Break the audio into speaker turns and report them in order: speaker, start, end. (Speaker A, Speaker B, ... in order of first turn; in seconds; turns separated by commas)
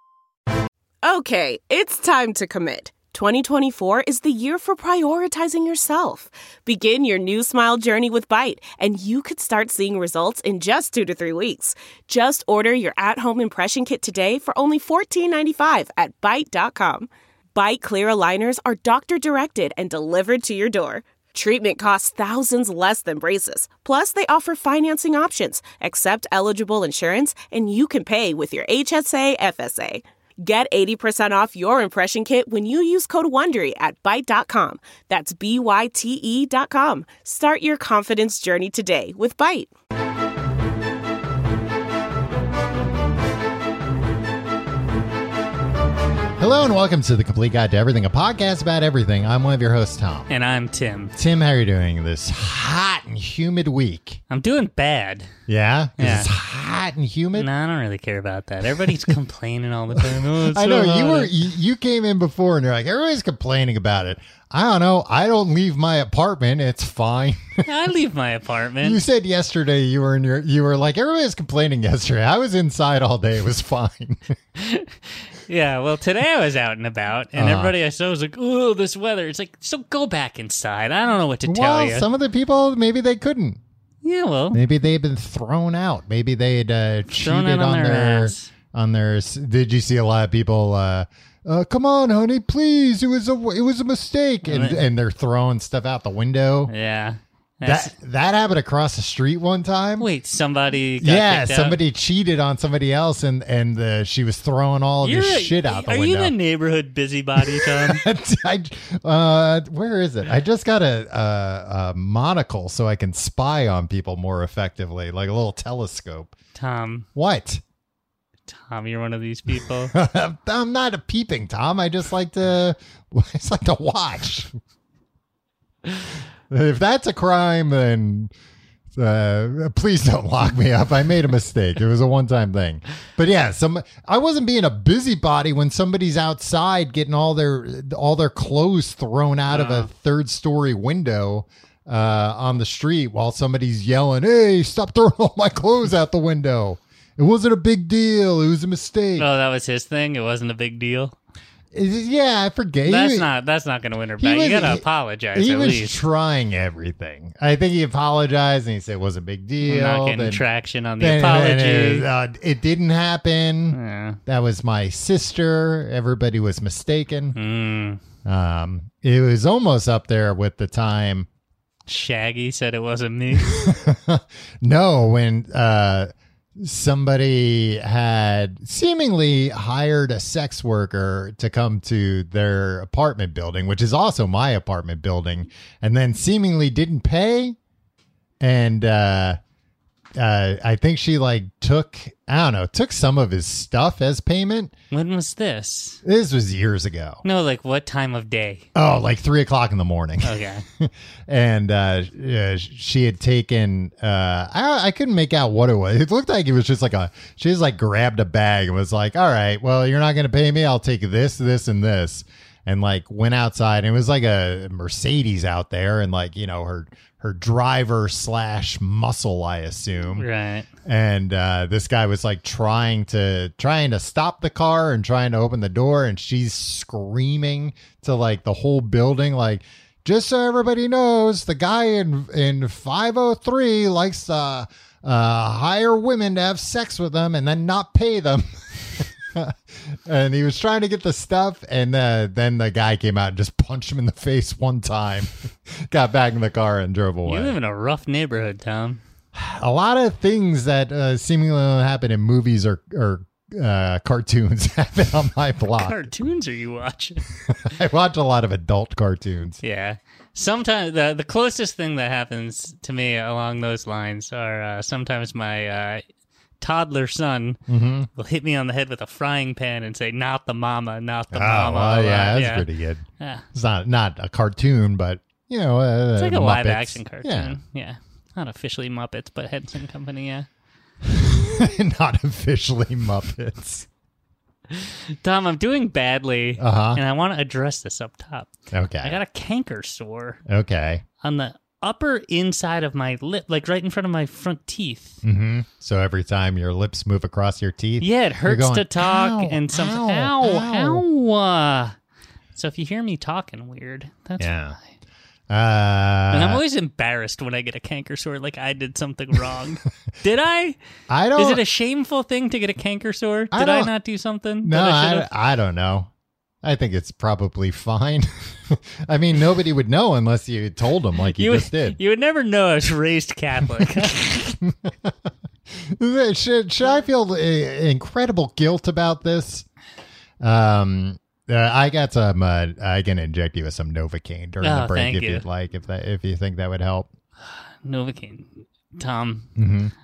Speaker A: 1.0-39.7, Speaker B: 46.4-50.3, Speaker C: 50.3-51.1, Speaker B: 51.2-54.2, Speaker C: 54.3-55.3, Speaker B: 55.5-57.5, Speaker C: 56.0-56.3, Speaker C: 57.4-61.3, Speaker B: 60.0-67.7, Speaker C: 67.6-69.0, Speaker B: 68.8-74.3, Speaker C: 74.6-74.9, Speaker C: 75.5-82.1, Speaker B: 77.3-77.7, Speaker B: 81.4-83.6, Speaker C: 84.0-84.6, Speaker B: 84.5-96.7, Speaker C: 87.1-88.5, Speaker C: 94.4-94.8, Speaker C: 96.7-97.9, Speaker B: 97.7-100.1, Speaker C: 100.0-101.8, Speaker B: 101.0-106.3, Speaker C: 105.0-108.0, Speaker B: 107.4-116.3, Speaker C: 116.6-117.1, Speaker B: 117.2-117.6, Speaker C: 118.5-119.9, Speaker B: 119.9-124.6, Speaker B: 126.5-128.3, Speaker B: 128.9-149.3, Speaker C: 139.5-139.9, Speaker C: 149.2-151.2, Speaker B: 151.7-153.3, Speaker C: 152.9-156.0, Speaker B: 154.2-160.4, Speaker C: 159.6-162.1, Speaker B: 161.0-167.4, Speaker C: 163.7-164.2, Speaker C: 167.3-168.0, Speaker B: 168.2-171.3, Speaker C: 171.9-173.8, Speaker B: 173.3-187.6, Speaker B: 188.4-189.4, Speaker B: 190.2-194.7, Speaker C: 194.9-196.0, Speaker B: 196.0-197.2, Speaker C: 197.2-198.7, Speaker B: 198.8-220.3, Speaker C: 200.2-200.7, Speaker C: 220.2-220.7, Speaker B: 220.8-247.6, Speaker C: 247.3-249.0, Speaker B: 249.3-256.1, Speaker C: 255.7-257.2, Speaker B: 257.6-259.6, Speaker C: 259.6-266.0, Speaker C: 266.6-267.6, Speaker B: 267.7-268.1, Speaker C: 268.1-272.7, Speaker B: 271.3-277.6, Speaker C: 273.2-273.4, Speaker C: 276.2-280.5, Speaker B: 281.1-283.9, Speaker C: 284.7-288.5, Speaker B: 286.6-287.0, Speaker B: 288.7-289.2, Speaker C: 289.0-290.4, Speaker B: 290.5-291.0, Speaker C: 291.2-295.2, Speaker B: 295.2-301.0, Speaker C: 298.0-301.9, Speaker C: 302.6-304.6, Speaker B: 304.4-304.8, Speaker B: 305.5-306.6, Speaker C: 306.3-310.8, Speaker B: 311.1-311.6, Speaker C: 311.4-315.3, Speaker B: 313.5-313.9, Speaker B: 314.6-316.1, Speaker B: 316.6-322.0, Speaker C: 321.4-324.6, Speaker B: 323.7-324.1, Speaker B: 324.6-325.1, Speaker B: 325.8-329.7, Speaker B: 330.4-337.1, Speaker C: 334.6-335.4, Speaker C: 337.4-339.5, Speaker B: 339.6-339.9